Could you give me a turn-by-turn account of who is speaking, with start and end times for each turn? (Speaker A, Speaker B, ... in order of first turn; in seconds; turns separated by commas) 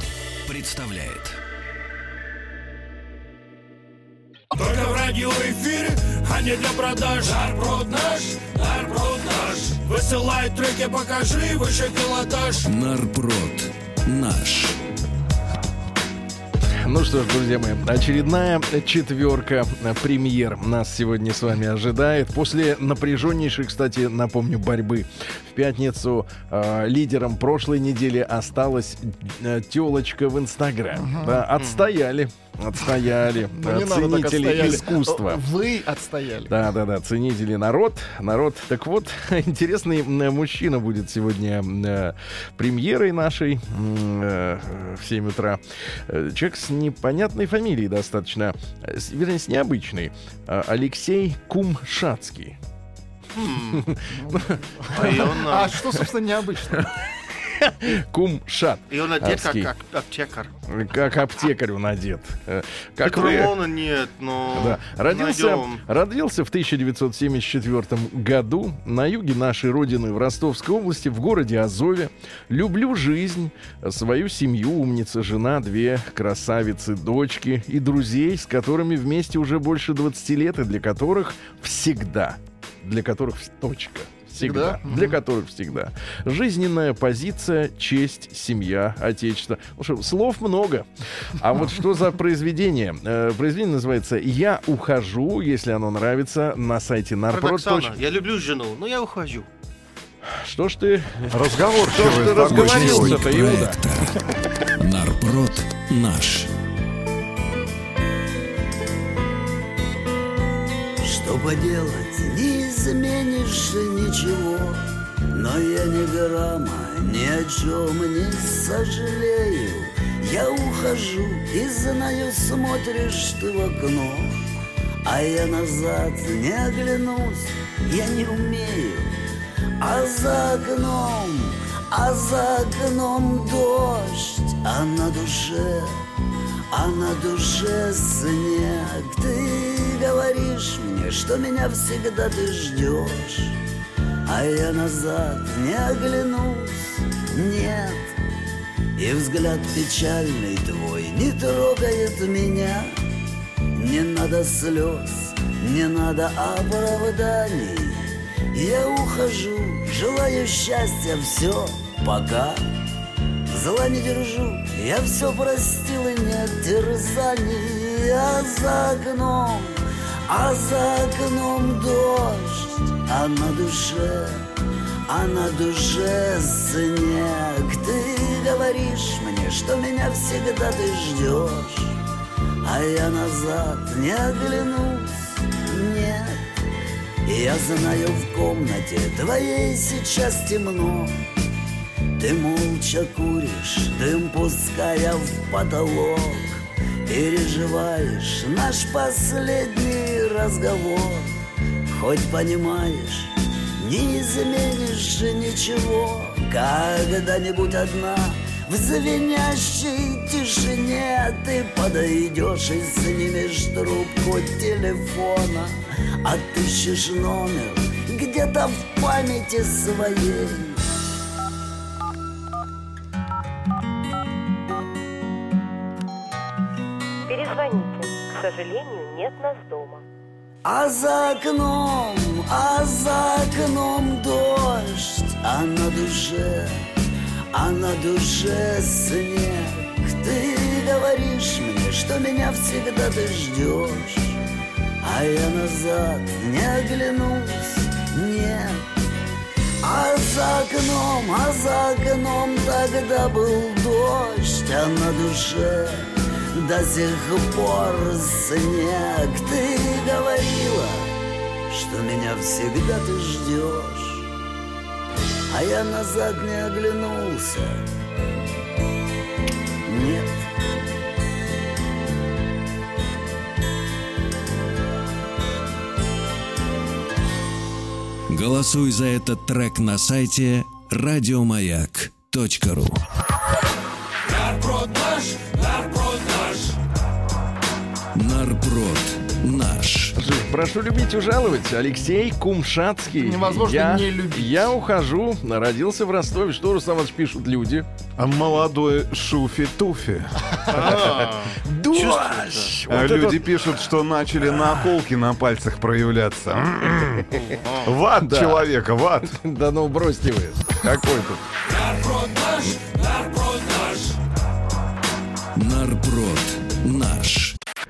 Speaker A: 0.5-1.3, Speaker B: 0.5-1.2, Speaker C: 4.5-12.7, Speaker A: 12.7-14.8, Speaker D: 16.8-35.6, Speaker B: 33.6-36.5, Speaker D: 36.5-52.6, Speaker E: 53.4-53.9, Speaker D: 53.7-55.9, Speaker E: 54.9-55.9, Speaker B: 55.5-56.8, Speaker D: 56.7-59.7, Speaker E: 58.9-60.5, Speaker D: 60.7-63.6, Speaker E: 63.0-65.8, Speaker D: 64.5-98.0, Speaker B: 84.4-84.7, Speaker E: 97.3-99.5, Speaker D: 100.3-103.9, Speaker F: 101.3-103.2, Speaker A: 102.7-104.1, Speaker A: 104.8-106.5, Speaker G: 111.0-124.5, Speaker G: 125.0-129.2, Speaker G: 129.8-136.0, Speaker G: 136.7-143.6, Speaker G: 144.2-148.1, Speaker G: 148.9-153.0, Speaker G: 153.7-162.8, Speaker G: 163.5-174.5, Speaker G: 175.1-182.0, Speaker G: 182.6-186.5, Speaker G: 187.2-191.2, Speaker G: 192.1-220.8, Speaker H: 227.3-230.0, Speaker G: 230.6-236.9, Speaker G: 237.5-244.4, Speaker G: 245.0-248.9, Speaker G: 249.8-261.1, Speaker G: 261.7-264.3, Speaker G: 265.5-267.9, Speaker G: 269.8-270.4, Speaker A: 278.3-283.0, Speaker C: 284.3-286.8, Speaker A: 288.1-290.1, Speaker D: 290.1-297.9, Speaker B: 293.2-294.6, Speaker F: 298.2-301.3, Speaker E: 300.7-302.8, Speaker D: 301.5-303.9, Speaker F: 302.9-309.4, Speaker E: 307.3-307.9, Speaker D: 308.1-311.4, Speaker C: 311.7-314.2, Speaker A: 315.5-317.6